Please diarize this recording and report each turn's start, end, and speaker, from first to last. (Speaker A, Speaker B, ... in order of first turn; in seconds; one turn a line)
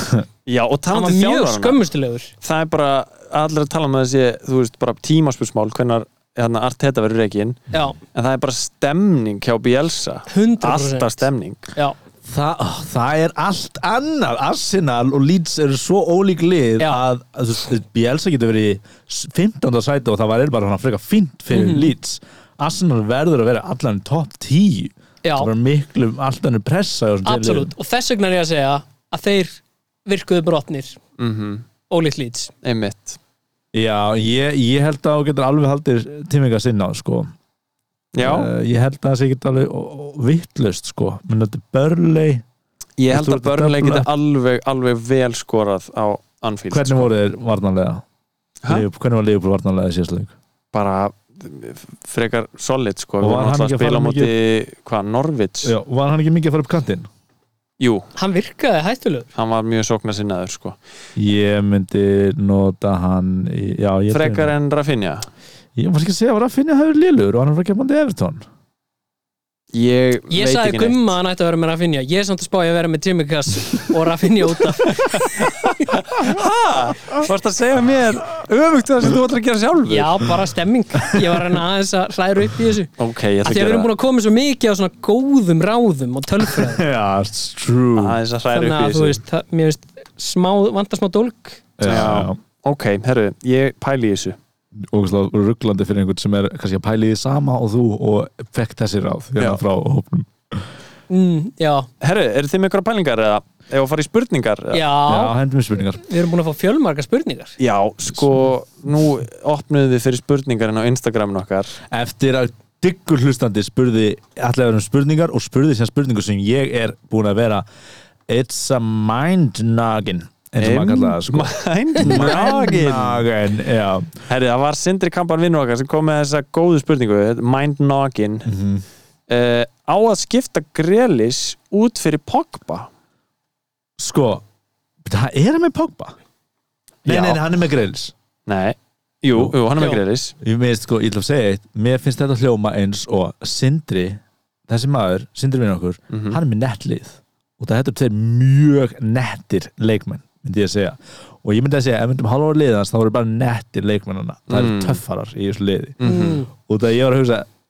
Speaker A: 0.5-1.8
Speaker B: 0.9-2.3
Speaker A: 2.4-11.7
Speaker B: 7.7-8.0
Speaker B: 10.3-11.9
Speaker C: 12.2-27.7
Speaker B: 21.5-21.9
Speaker B: 25.2-25.5
Speaker B: 27.2-31.0
Speaker A: 31.2-31.6
Speaker B: 31.9-32.5
Speaker A: 32.6-33.2
Speaker C: 33.7-37.3
Speaker A: 38.1-38.5
Speaker C: 38.2-42.4
Speaker A: 43.0-47.1
Speaker C: 43.1-44.1
Speaker C: 46.7-48.0
Speaker C: 48.7-50.3
Speaker A: 50.7-55.7
Speaker C: 53.2-54.3
Speaker C: 55.6-57.1
Speaker A: 57.8-58.1
Speaker B: 58.1-59.3
Speaker A: 59.3-60.8
Speaker C: 61.1-64.5
Speaker A: 64.1-65.3
Speaker C: 65.8-68.4
Speaker A: 69.7-71.1
Speaker B: 70.3-75.9
Speaker A: 75.9-80.3
Speaker B: 79.9-82.9
Speaker C: 81.0-81.6
Speaker A: 83.0-83.9
Speaker B: 83.4-86.8
Speaker C: 86.4-88.2
Speaker A: 88.0-89.2
Speaker B: 88.5-91.7
Speaker C: 91.8-92.4
Speaker A: 91.8-94.4
Speaker C: 94.9-100.7
Speaker B: 101.1-101.9
Speaker A: 102.0-104.8
Speaker B: 104.7-105.3
Speaker C: 105.0-106.0
Speaker B: 106.0-107.5
Speaker A: 107.6-111.8
Speaker C: 111.9-117.6
Speaker C: 118.3-124.1
Speaker A: 120.6-123.2
Speaker A: 124.3-128.5
Speaker C: 128.4-128.8
Speaker A: 129.3-132.9
Speaker C: 134.0-134.4
Speaker C: 135.0-136.2
Speaker A: 137.0-137.4
Speaker C: 137.0-138.1
Speaker A: 138.5-140.3
Speaker C: 140.4-157.5
Speaker A: 146.1-146.4
Speaker A: 154.5-155.0
Speaker A: 156.0-156.4
Speaker B: 156.0-156.5